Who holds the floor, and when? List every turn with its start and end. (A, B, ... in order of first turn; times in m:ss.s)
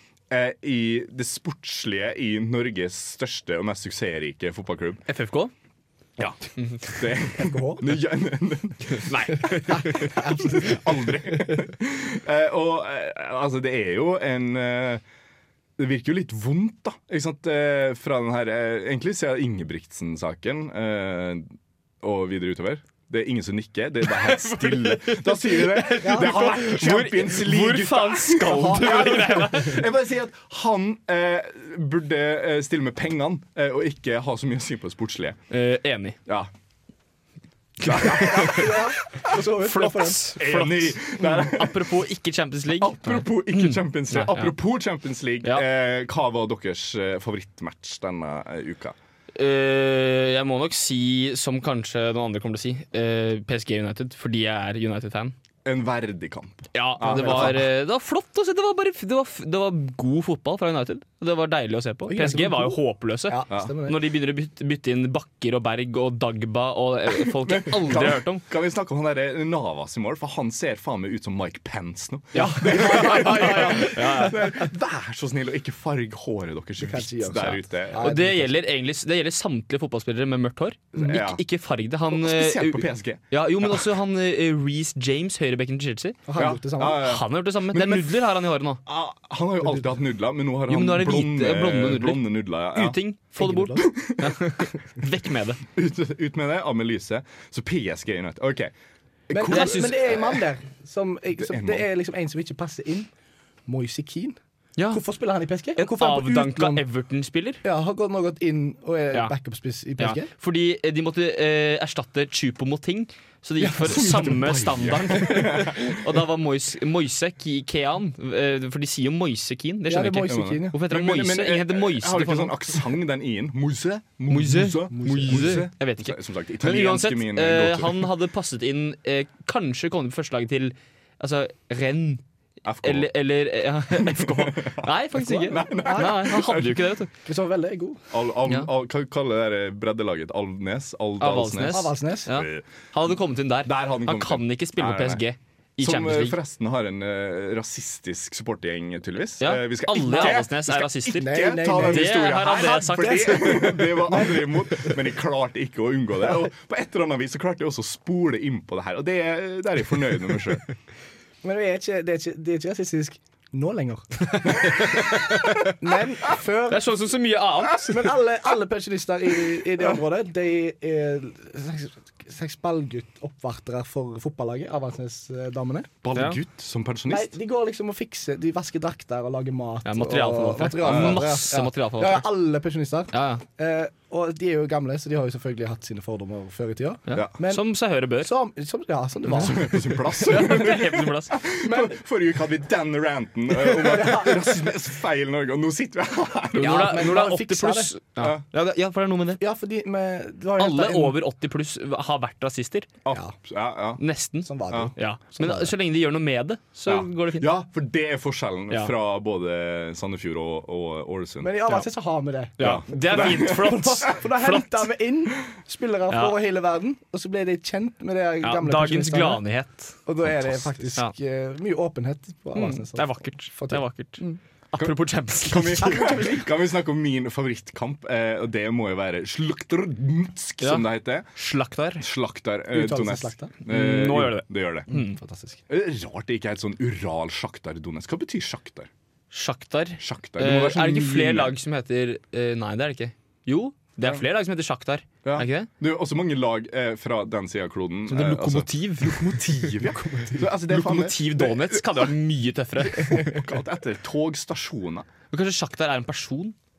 0:00.3-0:05.0 A
0:05.1-0:05.5 B
0:06.2-0:15.0 A
0:06.6-0:07.0 B
0:07.4-0:07.8 C
0:08.9-0:10.2 B
0:09.7-0:10.6 C
0:15.8-0:35.4 A
0:24.1-0:29.8 B
0:26.0-0:26.4 C
0:35.5-0:36.2 B
0:37.8-0:38.7 B
0:37.8-0:38.8 A
0:37.9-0:40.3 C
0:39.6-0:44.5 B
0:40.4-0:41.9 A
0:42.7-0:48.9 A
0:49.3-0:55.3 B
0:55.6-0:57.6 A
0:56.7-1:08.4 B
0:57.0-0:57.6 C
1:02.0-1:04.0 C
1:07.3-1:18.2 A
1:12.3-1:14.4 B
1:12.3-1:14.4 C
1:16.8-1:18.5 C
1:18.0-1:26.2 B
1:20.9-1:21.4 A
1:22.1-1:23.9 A
1:26.3-1:27.1 C
1:26.4-1:28.2 A
1:26.9-1:28.8 B
1:28.8-1:33.0 A
1:30.7-1:35.6 B
1:33.4-1:33.9 C
1:33.8-1:34.3 A
1:35.7-1:38.7 A
1:39.3-1:40.4 A
1:39.3-1:43.1 C
1:39.5-1:40.1 B
1:41.4-1:41.9 A
1:43.6-1:44.4 C
1:44.8-1:45.0 B
1:44.9-1:46.8 C
1:45.8-1:47.6 B
1:47.6-1:50.3 C
1:50.0-2:02.7 B
1:53.6-1:54.1 C
1:53.8-1:56.0 A
1:59.9-2:00.8 C
2:00.2-2:08.1 A
2:04.3-2:12.2 B
2:04.9-2:05.6 C
2:12.6-2:13.1 A
2:12.8-2:17.1 B
2:13.9-2:16.9 A
2:15.8-2:16.2 C
2:17.2-2:18.0 C
2:18.1-2:22.6 A
2:21.2-2:26.4 B
2:21.7-2:22.3 C
2:23.6-2:25.2 A
2:25.8-2:40.6 A
2:29.4-2:33.6 B
2:31.1-2:34.9 C
2:41.4-2:46.9 C
2:44.3-2:45.7 B
2:46.7-2:48.1 B
2:47.8-2:55.9 C
2:56.0-2:57.3 A
2:57.1-3:07.6 C
2:59.8-3:02.2 B
3:00.8-3:01.2 A
3:03.1-3:03.4 B
3:07.1-3:08.3 B
3:08.2-3:10.0 C
3:09.3-3:17.1 A
3:10.3-3:11.4 B
3:11.6-3:12.0 C
3:13.6-3:14.6 C
3:16.6-3:19.4 B
3:16.6-3:17.9 C
3:19.4-3:21.2 C
3:20.6-3:22.9 B
3:23.0-3:24.0 A
3:24.0-3:27.5 B
3:24.4-3:25.7 C
3:26.8-3:31.6 A
3:31.4-3:39.4 C
3:32.6-3:34.8 B
3:32.6-3:33.8 A
3:36.1-3:36.4 B
3:38.4-3:40.0 B
3:40.0-3:44.4 C
3:40.2-3:40.6 A
3:42.5-3:44.2 B
3:44.7-3:46.1 B
3:44.7-3:51.3 A
3:45.8-3:46.4 C
3:50.6-3:52.0 B
3:52.0-3:54.9 A
3:52.7-3:53.5 C
3:53.7-3:55.2 B
3:54.9-3:55.6 C
3:55.7-3:58.9 A
3:59.3-4:05.7 B
4:00.0-4:01.5 A
4:05.2-4:12.1 A
4:08.1-4:13.4 B
4:12.9-4:15.1 A
4:15.3-4:16.5 B